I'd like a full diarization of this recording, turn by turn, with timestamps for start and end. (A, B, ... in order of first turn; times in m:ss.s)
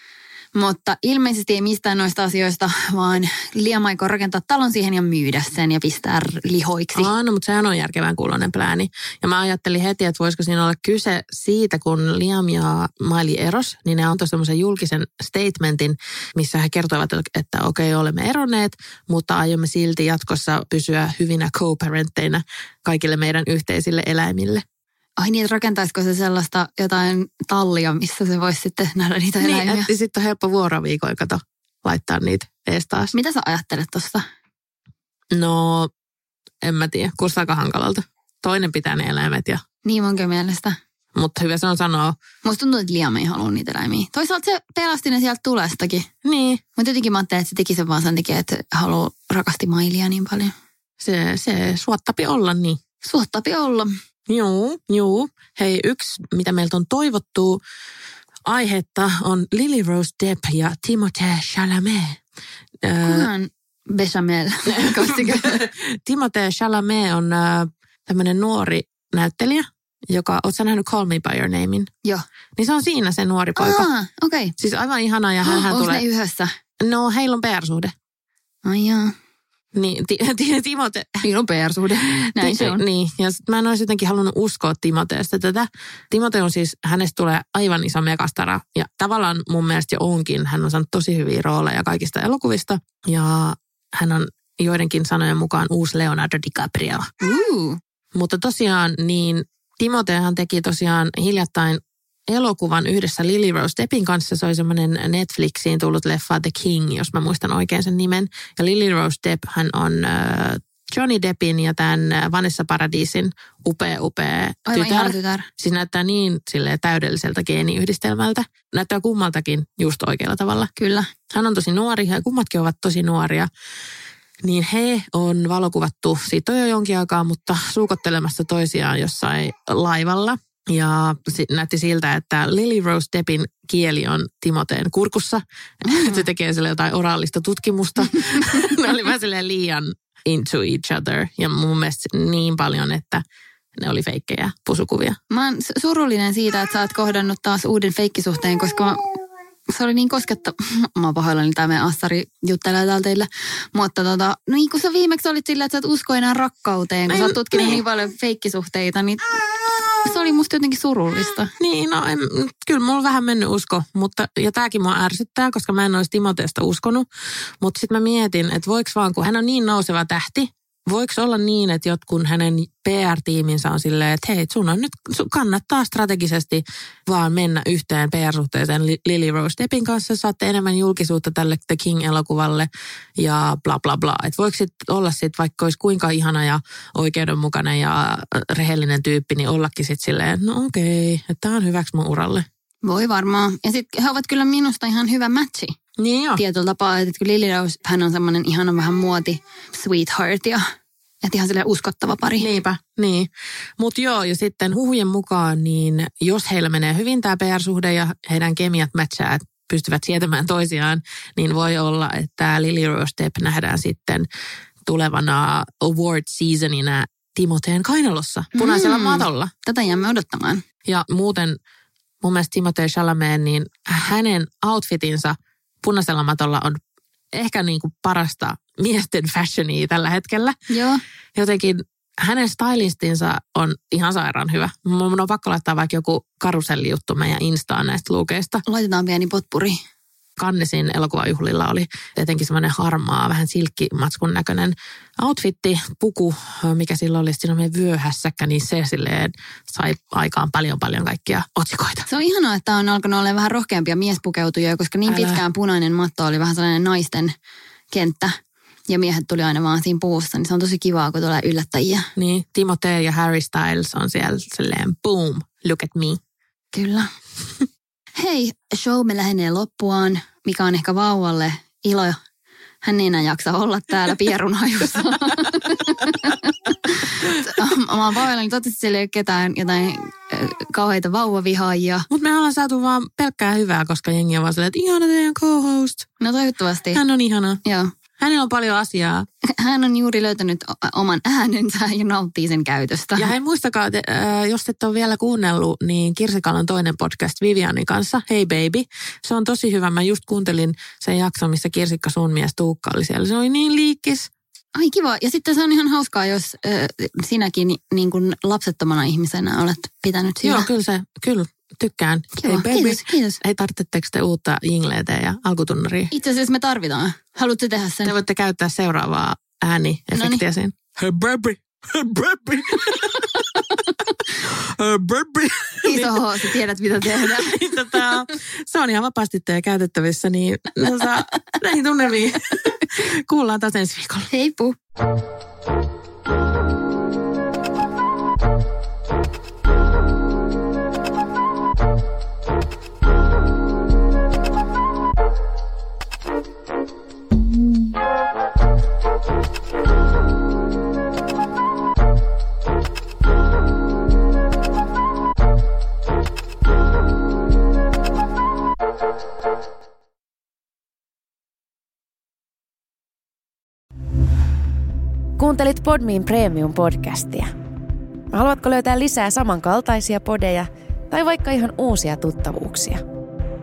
0:00.5-0:07.1 A
0:06.9-0:24.6 B
0:25.2-0:29.9 A
0:29.4-0:33.1 B
0:33.1-0:34.2 A
0:35.3-0:35.9 B
0:36.6-0:39.6 B
0:39.8-0:40.8 A
0:41.2-0:42.2 B
0:42.4-0:46.1 A
0:46.2-0:46.6 B
0:46.8-0:50.5 A
0:51.0-0:52.8 B
0:53.0-0:53.9 A
0:54.3-0:57.6 B
0:58.4-1:02.2 B
1:02.8-1:03.3 B
1:03.0-1:05.6 A
1:04.7-1:11.9 B
1:12.6-1:13.9 B
1:13.6-1:14.5 A
1:14.6-1:16.0 B
1:15.4-1:16.5 A
1:16.8-1:17.9 B
1:18.6-1:19.1 A
1:19.7-1:21.2 B
1:21.2-1:22.8 A
1:22.1-1:37.1 B
1:37.2-1:37.8 A
1:38.1-2:00.7 B
1:54.7-1:55.5 A
2:00.8-2:01.1 A
2:01.3-2:03.5 B
2:04.4-2:23.2 B
2:15.8-2:16.2 A
2:23.8-2:25.2 B
2:25.3-2:29.2 A
2:29.7-2:39.4 A
2:37.1-2:37.8 B
2:40.0-2:41.5 A
2:41.6-2:47.0 B
2:47.6-3:12.4 B
3:12.8-3:15.8 A
3:16.0-3:16.4 B
3:16.4-3:20.6 A
3:21.2-3:22.5 A
3:22.4-3:34.3 B
3:34.8-3:39.5 B
3:38.5-3:40.6 A
3:40.8-3:41.6 B
3:42.2-3:46.8 B
3:47.3-3:50.6 B
3:50.7-3:51.0 A
3:51.3-3:58.6 B
3:58.6-3:59.8 A
4:00.4-4:12.1 B
4:12.1-4:17.3 A
4:15.1-4:15.4 B
4:17.9-4:18.3 A
4:18.9-4:22.1 A
4:22.2-4:26.2 B
4:26.7-4:27.1 A
4:28.1-4:32.2 A
4:32.8-4:42.1 A
4:42.1-4:46.1 B
4:46.2-4:47.0 A
4:46.9-4:47.6 B
4:47.6-4:47.9 A
4:48.2-4:49.2 B
4:49.5-4:53.3 A
4:53.2-5:04.3 B
5:04.8-5:10.7 A
5:10.4-5:16.1 B
5:12.4-5:13.4 A
5:16.1-5:18.1 A
5:18.0-5:34.3 B
5:20.1-5:20.4 A
5:25.8-5:28.0 A
5:34.3-5:34.7 A
6:05.4-6:07.5 C
6:08.3-6:13.0 C